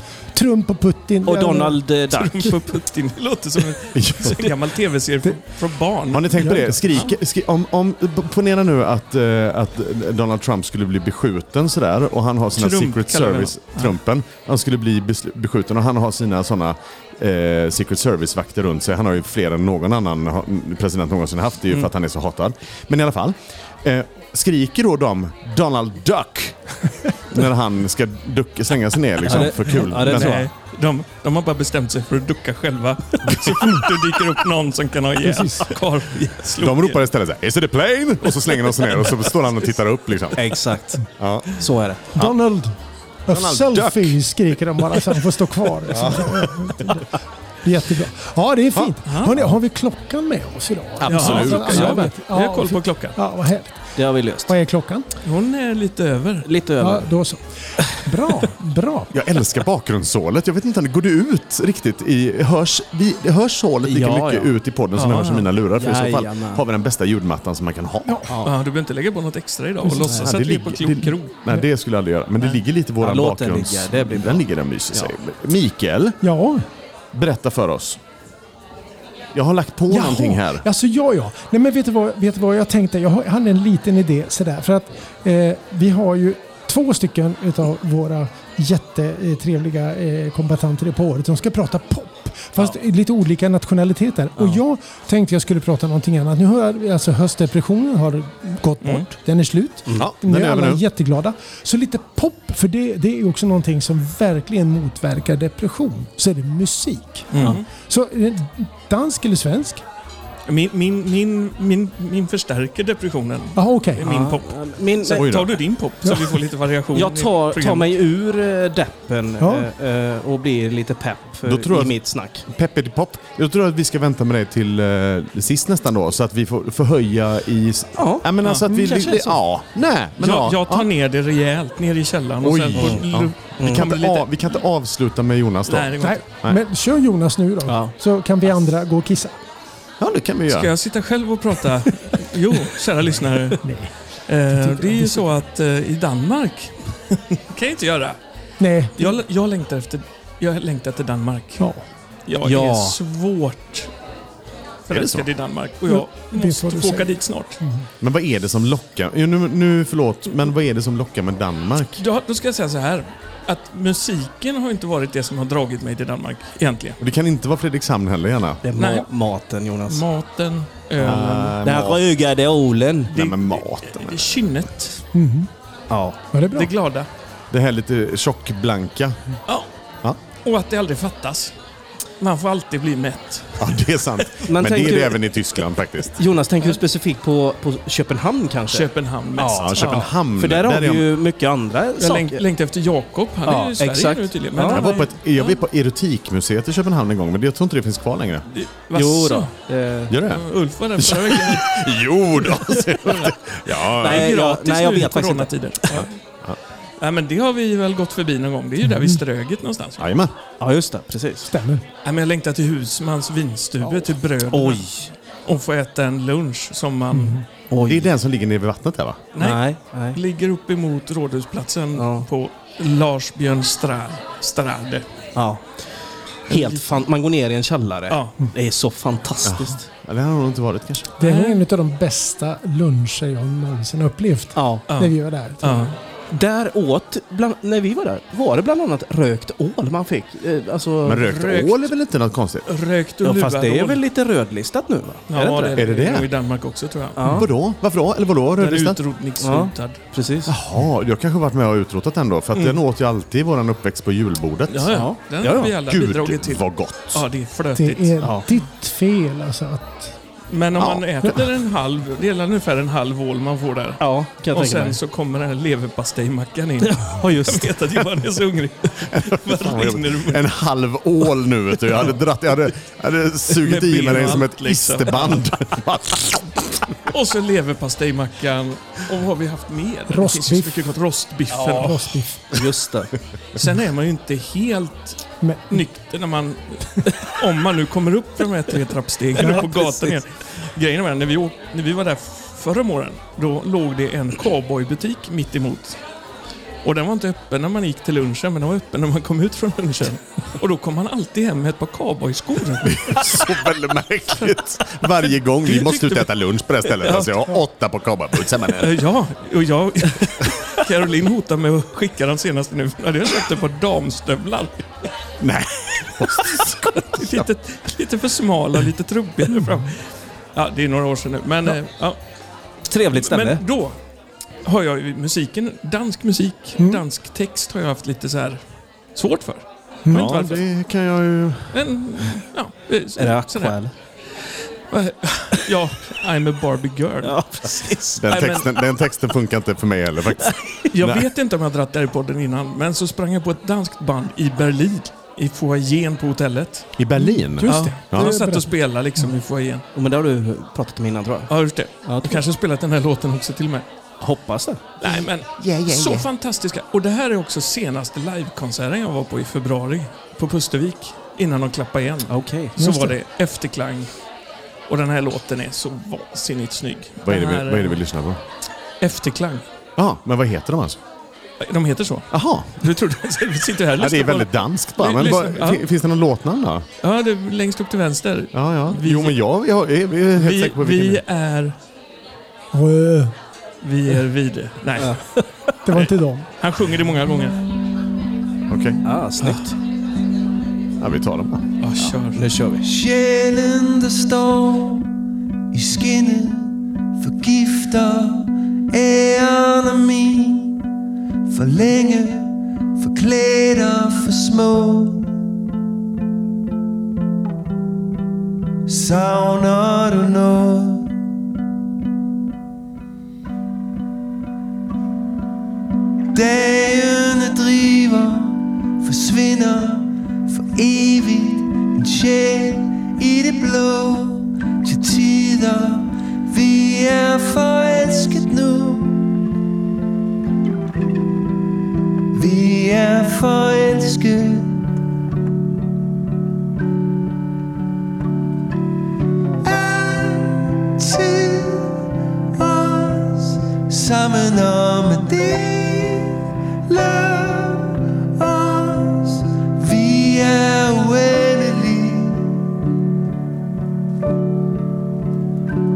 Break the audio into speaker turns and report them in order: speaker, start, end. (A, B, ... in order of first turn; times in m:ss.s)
0:00.3-0:01.8 A
0:01.2-0:02.5 B
0:02.1-0:07.1 C
0:04.0-0:04.4 D
0:06.1-0:26.6 D
0:06.4-0:06.9 A
0:12.6-0:14.0 C
0:27.3-0:30.5 D
0:29.3-0:30.5 B
0:29.3-0:37.0 C
0:33.3-0:33.7 D
0:35.2-0:35.8 A
0:36.6-0:40.6 D
0:40.4-0:42.1 B
0:41.2-0:41.6 D
0:42.2-0:42.7 A
0:43.3-0:55.1 A
0:43.3-0:44.2 D
0:45.9-0:46.9 D
0:48.8-0:49.4 D
0:49.1-0:49.3 C
0:51.0-0:52.0 D
0:51.1-0:53.2 C
0:51.7-0:52.0 B
0:54.0-0:54.5 B
0:55.2-0:56.5 C
0:56.4-0:57.1 B
0:56.8-0:59.1 A
0:59.1-1:08.4 D
1:03.8-1:04.5 B
1:05.0-1:05.5 C
1:05.1-1:06.6 B
1:08.3-1:08.5 B
1:08.4-1:11.4 C
1:10.1-1:16.2 D
1:13.0-1:15.1 B
1:16.2-1:16.6 A
1:17.1-1:18.0 D
1:19.3-1:20.6 D
1:19.9-1:49.8 A
1:40.0-1:40.8 D
1:47.3-1:47.6 C
1:47.4-1:47.6 B
1:50.5-1:57.9 C
1:53.6-1:54.1 A
1:54.0-1:55.4 B
1:55.2-1:55.6 D
1:56.9-2:02.4 B
1:59.4-1:59.7 A
2:01.4-2:10.9 D
2:08.0-2:09.4 B
2:10.2-2:14.3 C
2:12.4-2:16.6 D
2:12.7-2:13.0 B
2:13.6-2:13.9 B
2:15.7-2:16.2 C
2:16.0-2:19.4 A
2:17.7-2:17.9 B
2:20.0-2:20.7 D
2:20.5-2:23.6 C
2:23.6-2:23.9 A
2:24.3-2:28.2 C
2:24.5-2:25.3 A
2:28.6-2:29.2 A
2:29.0-2:31.6 C
2:32.3-2:33.9 C
2:32.4-2:33.0 B
2:34.9-2:37.6 C
2:34.9-2:35.3 D
2:35.9-2:37.9 A
2:38.0-2:42.0 D
2:42.0-2:47.0 C
2:47.0-2:48.6 D
2:48.6-2:50.0 B
2:48.8-2:49.1 C
2:49.9-2:51.6 C
2:51.0-2:52.1 D
2:51.1-2:53.1 B
2:53.1-2:55.0 C
2:53.1-2:54.4 D
2:55.1-2:55.5 A
2:55.9-2:56.2 B
2:56.3-2:56.7 A
2:56.5-2:57.1 C
2:57.5-2:59.2 D
3:00.4-3:01.5 C
3:02.2-3:05.0 C
3:03.6-3:06.2 D
3:04.5-3:05.3 B
3:06.2-3:12.4 B
3:08.7-3:10.1 C
3:09.5-3:11.1 D
3:12.0-3:15.6 C
3:13.5-3:14.9 B
3:14.6-3:18.5 D
3:18.5-3:19.5 C
3:18.9-3:20.1 B
3:20.1-3:20.5 D
3:20.2-3:21.9 C
3:21.0-3:24.4 D
3:22.5-3:23.4 C
3:23.9-3:26.1 C
3:23.9-3:26.0 B
3:25.9-3:26.6 D
3:27.0-3:30.1 C
3:28.9-3:29.2 A
3:30.0-3:30.3 D
3:30.6-3:31.5 B
3:31.5-3:31.8 A
3:32.0-3:34.9 C
3:33.8-3:35.1 B
3:35.5-3:37.4 C
3:37.1-3:37.4 A
3:37.7-3:38.1 B
3:37.8-3:39.2 D
3:39.3-3:45.0 C
3:39.4-3:40.2 B
3:42.0-3:42.3 B
3:45.4-3:45.7 B
3:46.5-3:49.8 B
3:46.5-3:47.0 C
3:48.1-3:48.4 C
3:49.4-3:51.1 D
3:51.2-3:55.9 A
3:51.2-3:51.6 C
3:54.6-3:54.8 B
3:54.9-3:55.9 C
3:56.3-4:01.3 B
4:01.0-4:02.7 D
4:01.3-4:01.9 C
4:02.7-4:04.0 C
4:03.2-4:05.9 B
4:05.3-4:07.5 C
4:05.8-4:06.3 D
4:07.2-4:07.5 B
4:07.3-4:09.0 D
4:08.6-4:10.0 C
4:09.4-4:10.6 B
4:10.5-4:17.3 D
4:14.7-4:18.2 C
4:14.9-4:15.8 B
4:17.8-4:20.2 A
4:18.2-4:18.5 B
4:20.5-4:30.5 C
4:20.8-4:21.1 D
4:24.0-4:25.0 B
4:26.8-4:27.9 B
4:29.1-4:37.1 D
4:33.5-4:35.5 C
4:37.1-4:42.2 C
4:40.1-4:40.9 A
4:41.5-4:42.0 B
4:41.8-4:42.5 A
4:42.5-4:43.1 B
4:43.6-4:56.0 C
4:45.4-4:45.8 A
4:49.4-4:49.7 A
4:49.5-4:50.1 B
4:56.8-5:03.5 C
5:02.8-5:09.0 D
5:04.4-5:06.3 C
5:06.8-5:07.5 C
5:08.8-5:14.8 C
5:15.4-5:17.5 D
5:16.5-5:22.2 C
5:22.9-5:23.6 B
5:23.1-5:24.0 C
5:24.6-5:28.6 C
5:29.2-5:30.6 C
5:30.1-5:30.3 A
5:30.1-5:31.9 D
5:31.7-5:33.8 C
5:33.2-5:33.9 B
5:34.9-5:38.8 C
5:37.2-5:38.3 B
5:38.2-5:41.3 D
5:40.5-5:40.8 B
5:40.9-5:46.9 C
5:47.0-5:48.4 D
5:47.2-5:48.7 A
5:47.7-5:49.8 C
5:50.0-5:51.5 B
5:51.5-5:53.8 C
5:52.0-5:52.5 B
5:54.2-5:54.9 B
5:55.0-6:04.1 C
5:55.0-5:56.3 D
6:02.3-6:02.7 B
6:02.8-6:03.2 A
6:04.9-6:08.0 C
6:07.2-6:08.4 D
6:09.0-6:09.6 C
6:10.0-6:11.0 D
6:11.6-6:15.8 C
6:12.3-6:12.8 D
6:14.0-6:16.8 D
6:17.0-6:19.4 C
6:18.5-6:21.2 D
6:20.4-6:21.8 C
6:22.7-6:23.3 A
6:23.8-6:25.2 C
6:25.0-6:25.4 B
6:25.8-6:26.5 A
6:25.9-6:27.6 C
6:28.7-6:29.0 D
6:29.0-6:29.8 B
6:31.0-6:31.6 D
6:31.8-6:32.5 C
6:32.3-6:32.9 B
6:32.8-6:35.1 E
6:35.7-6:40.8 E
6:41.5-6:45.3 E
6:48.9-6:51.1 E
6:56.3-7:09.4 E
7:12.3-7:14.9 E
7:19.6-7:22.0 E
7:22.5-7:32.6 E